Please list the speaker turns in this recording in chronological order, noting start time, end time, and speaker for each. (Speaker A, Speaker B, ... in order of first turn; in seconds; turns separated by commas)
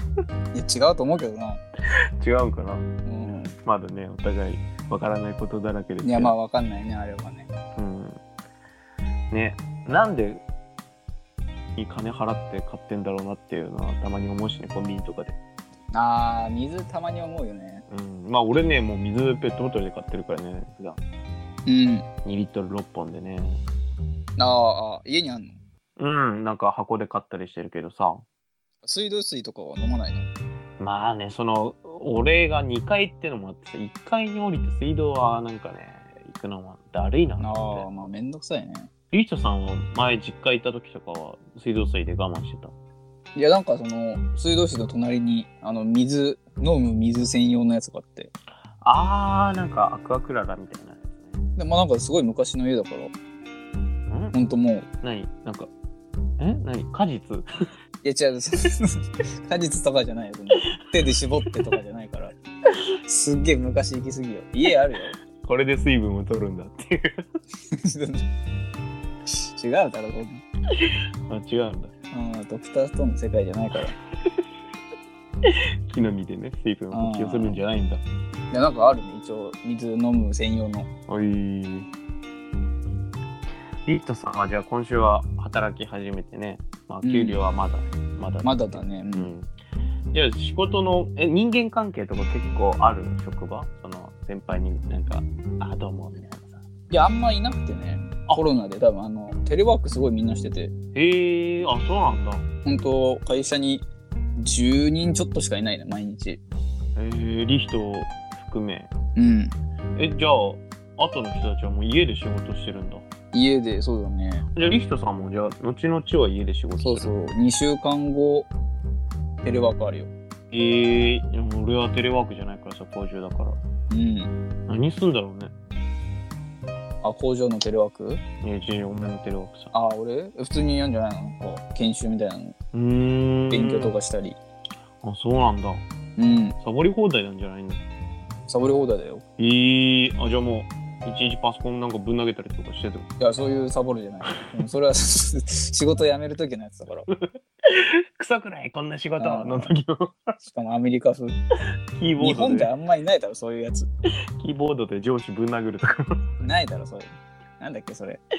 Speaker A: 0.5-1.6, Speaker B: 2.2-2.9, Speaker A: 3.0-3.5, Speaker B: 3.6-6.3, Speaker A: 6.0-7.5, Speaker B: 7.8-8.2, Speaker B: 9.3-10.4, Speaker B: 11.8-15.4, Speaker A: 15.9-17.8, Speaker B: 17.9-21.0, Speaker A: 21.6-22.1, Speaker B: 22.2-23.6, Speaker A: 24.4-25.6, Speaker B: 26.0-28.2, Speaker A: 28.8-30.3, Speaker B: 30.8-37.9, Speaker A: 37.4-38.9, Speaker B: 39.1-42.7, Speaker A: 43.3-48.3, Speaker B: 48.8-51.4, Speaker A: 51.6-53.1, Speaker B: 54.1-54.3, Speaker A: 54.3-54.9, Speaker B: 55.0-55.7, Speaker B: 56.4-57.5, Speaker A: 58.0-62.3, Speaker B: 61.4-61.8, Speaker A: 63.0-65.2, Speaker B: 65.3-67.2, Speaker A: 67.7-68.3, Speaker A: 69.3-70.4, Speaker B: 70.8-71.9, Speaker A: 72.1-74.0, Speaker B: 75.4-78.0, Speaker A: 76.9-77.6, Speaker A: 78.5-80.9, Speaker B: 81.1-81.9, Speaker B: 83.8-89.5, Speaker A: 87.0-87.4, Speaker A: 88.4-89.3, Speaker B: 90.1-96.7, Speaker A: 96.9-100.7, Speaker B: 100.9-102.5, Speaker A: 102.6-103.8, Speaker A: 104.3-106.4, Speaker B: 107.0-108.9, Speaker A: 109.2-109.5, Speaker B: 110.0-113.0, Speaker A: 113.3-114.5, Speaker B: 114.5-117.1, Speaker A: 116.8-118.5, Speaker A: 119.4-120.1, Speaker B: 120.5-123.6, Speaker A: 123.9-124.3, Speaker B: 124.7-125.5, Speaker A: 127.0-128.2, Speaker B: 128.4-129.7, Speaker A: 129.7-132.6, Speaker B: 132.7-133.9, Speaker A: 133.5-134.4, Speaker B: 135.0-135.8, Speaker A: 136.2-136.6, Speaker B: 136.6-137.8, Speaker A: 138.5-139.2, Speaker B: 139.4-143.1, Speaker A: 143.2-147.1, Speaker B: 147.7-150.4, Speaker A: 149.2-149.7, Speaker A: 150.4-151.4, Speaker B: 151.9-152.7, Speaker A: 152.2-153.9, Speaker B: 154.4-156.2, Speaker A: 156.4-158.2